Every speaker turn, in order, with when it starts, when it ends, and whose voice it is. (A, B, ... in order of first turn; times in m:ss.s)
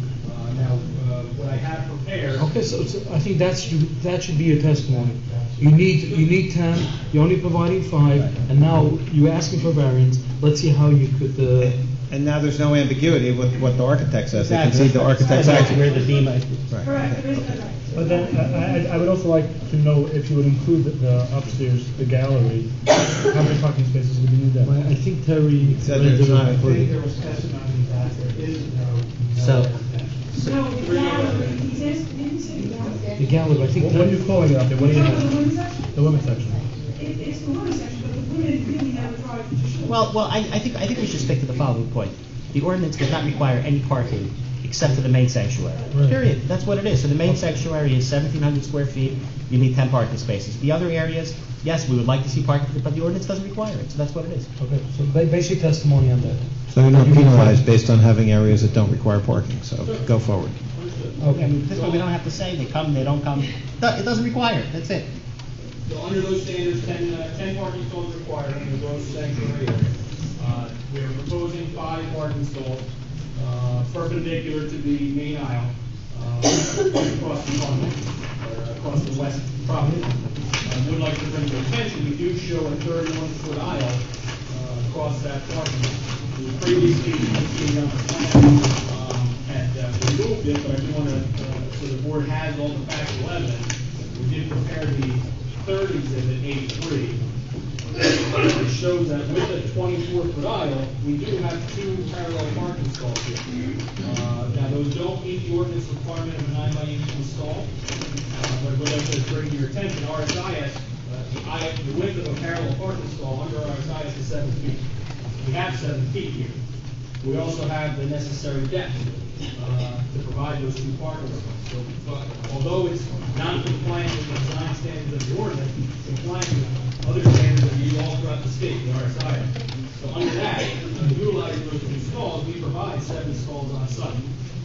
0:00.2-0:02.5 A
0:02.3-0:11.8 B
0:05.8-0:06.2 A
0:12.1-0:16.0 C
0:14.3-0:17.6 D
0:15.2-0:16.3 E
0:16.8-0:18.9 E
0:17.9-0:24.8 F
0:24.6-0:26.8 B
0:25.8-0:26.9 C
0:26.7-0:30.1 F
0:29.4-0:29.7 D
0:30.3-0:30.6 D
0:30.4-0:33.1 E
0:30.8-0:31.7 A
0:33.1-0:34.1 B
0:33.7-0:36.6 F
0:34.8-0:36.2 E
0:36.9-0:40.0 E
0:39.8-0:54.5 D
0:45.9-0:46.2 B
0:54.6-0:57.6 B
0:56.7-1:00.6 C
0:59.8-1:00.1 A
1:00.7-1:02.1 A
1:01.2-1:01.5 B
1:01.3-1:05.1 D
1:05.9-1:12.9 A
1:13.4-1:37.2 A
1:38.2-1:43.5 A
1:44.0-1:47.7 A
1:48.3-1:54.8 A
1:55.4-1:56.6 A
1:57.2-2:14.3 A